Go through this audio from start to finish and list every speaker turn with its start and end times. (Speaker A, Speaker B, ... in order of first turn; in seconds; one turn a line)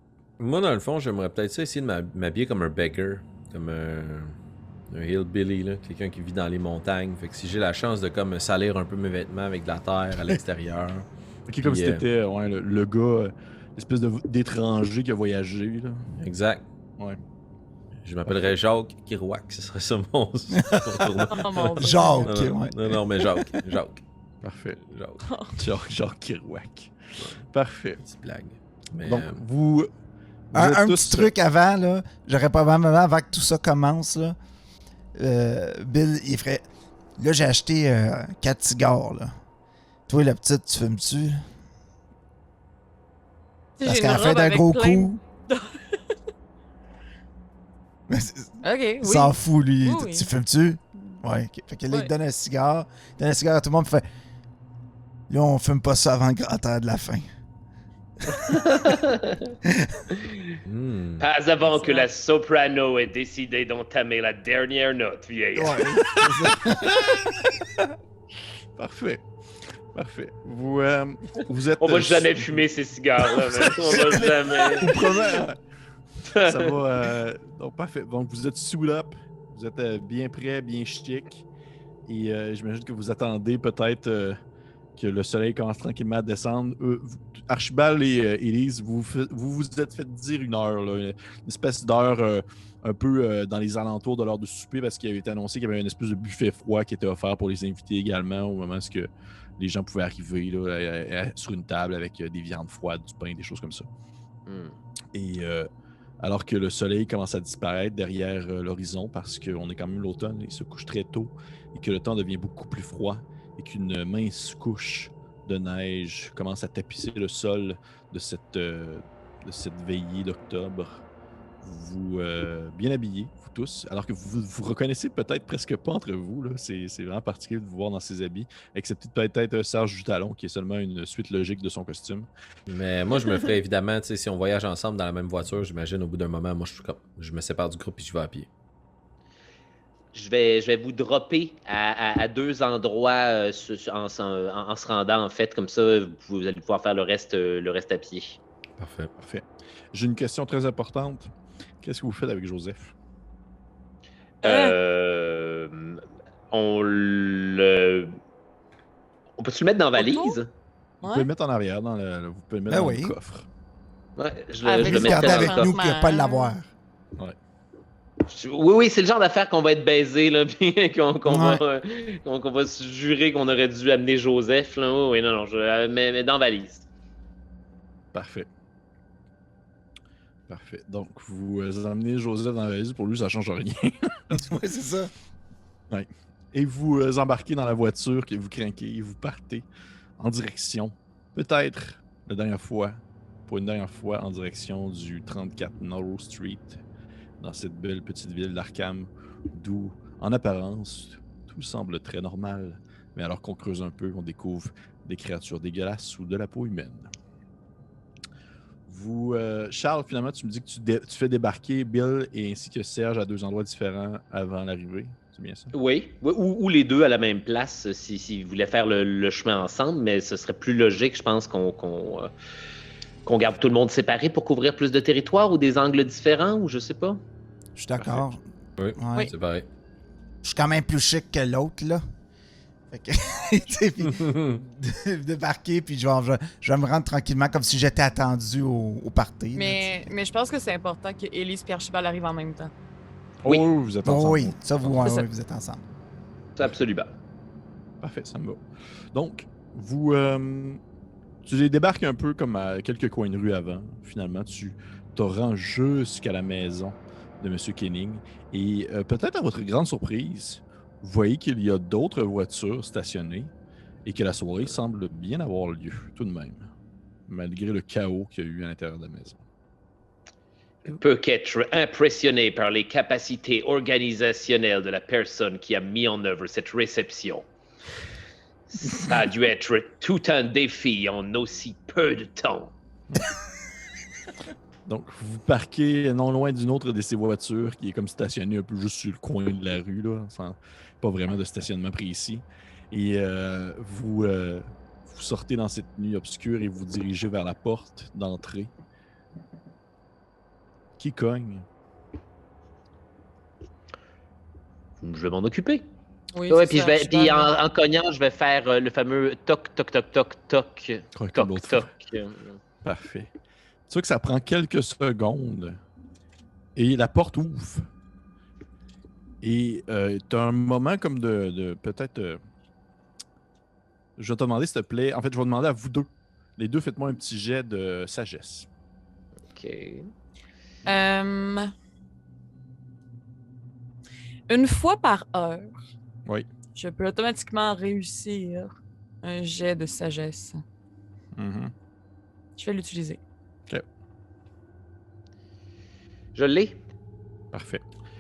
Speaker A: 0.4-4.4
Speaker A: 4.9-11.1
Speaker B: 11.5-16.1
Speaker A: 11.6-12.0
Speaker A: 16.2-16.6
Speaker A: 18.0-24.0
Speaker C: 20.7-21.1
Speaker D: 21.3-22.3
Speaker C: 21.8-23.0
Speaker B: 24.4-24.8
Speaker A: 24.9-25.2
Speaker D: 25.2-25.6
Speaker B: 25.6-28.0
Speaker A: 28.0-29.4
Speaker B: 29.0-29.9
Speaker B: 30.5-31.3
Speaker C: 30.5-34.4
Speaker C: 35.2-36.6
Speaker C: 37.2-39.3
Speaker C: 40.1-41.5
Speaker D: 43.8-46.2
Speaker C: 43.9-45.2
Speaker C: 48.1-54.0
Speaker D: 48.6-50.3
Speaker C: 55.3-57.3
Speaker C: 58.2-58.9
Speaker E: 58.9-59.5
Speaker C: 59.6-60.1
Speaker E: 60.2-60.5
Speaker A: 60.7-61.2
Speaker E: 61.2-65.9
Speaker D: 61.7-62.1
Speaker C: 65.6-67.3
Speaker B: 66.1-67.3
Speaker B: 68.8-69.3
Speaker B: 69.9-72.7
Speaker E: 71.8-75.0
Speaker B: 73.2-75.6
Speaker E: 76.3-76.7
Speaker B: 76.4-81.5
Speaker B: 82.1-84.4
Speaker B: 85.0-103.9
Speaker E: 104.5-104.8
Speaker B: 105.1-105.7
Speaker B: 106.2-121.0
Speaker B: 121.6-132.3
Speaker A: 132.7-138.5
Speaker E: 140.1-148.4
Speaker A: 148.8-149.1
Speaker B: 149.2-152.9
Speaker E: 154.4-158.2
Speaker D: 154.4-154.8
Speaker E: 159.4-160.5
Speaker D: 160.0-160.4
Speaker D: 161.0-161.3
Speaker B: 161.0-163.5
Speaker C: 162.7-163.1
Speaker E: 164.2-165.7
Speaker D: 164.6-166.6
Speaker C: 164.8-166.7
Speaker E: 168.2-176.8
Speaker C: 171.3-171.6
Speaker B: 178.1-178.5
Speaker B: 180.5-184.4
Speaker C: 184.3-185.1
Speaker B: 185.9-189.7
Speaker B: 190.2-196.8
Speaker B: 197.4-207.1
Speaker B: 208.9-215.7
Speaker E: 215.7-222.3
Speaker E: 223.2-227.2
Speaker C: 227.8-228.4
Speaker A: 228.8-229.7
Speaker C: 229.0-229.3
Speaker C: 230.4-232.0
Speaker C: 232.9-240.0
Speaker A: 234.2-234.6
Speaker D: 239.5-242.7
Speaker B: 243.4-245.0
Speaker C: 244.0-245.8
Speaker D: 245.0-245.3
Speaker E: 246.6-247.1
Speaker B: 248.0-248.6
Speaker B: 249.1-250.8
Speaker B: 251.4-263.5
Speaker B: 264.1-266.7
Speaker B: 267.3-269.4
Speaker E: 270.9-277.5
Speaker E: 278.7-282.7
Speaker B: 284.9-298.7
Speaker B: 301.0-301.7
Speaker E: 305.0-305.9
Speaker D: 306.3-307.5
Speaker E: 306.5-312.6
Speaker B: 311.2-311.9
Speaker B: 312.8-313.3
Speaker B: 313.9-315.8
Speaker B: 316.8-317.9
Speaker B: 319.4-322.4
Speaker B: 324.2-328.7
Speaker E: 329.5-330.1
Speaker D: 330.9-331.7
Speaker D: 334.5-335.8
Speaker D: 336.8-340.6
Speaker B: 341.4-341.7
Speaker D: 342.6-343.2
Speaker E: 346.4-346.8
Speaker B: 347.5-347.8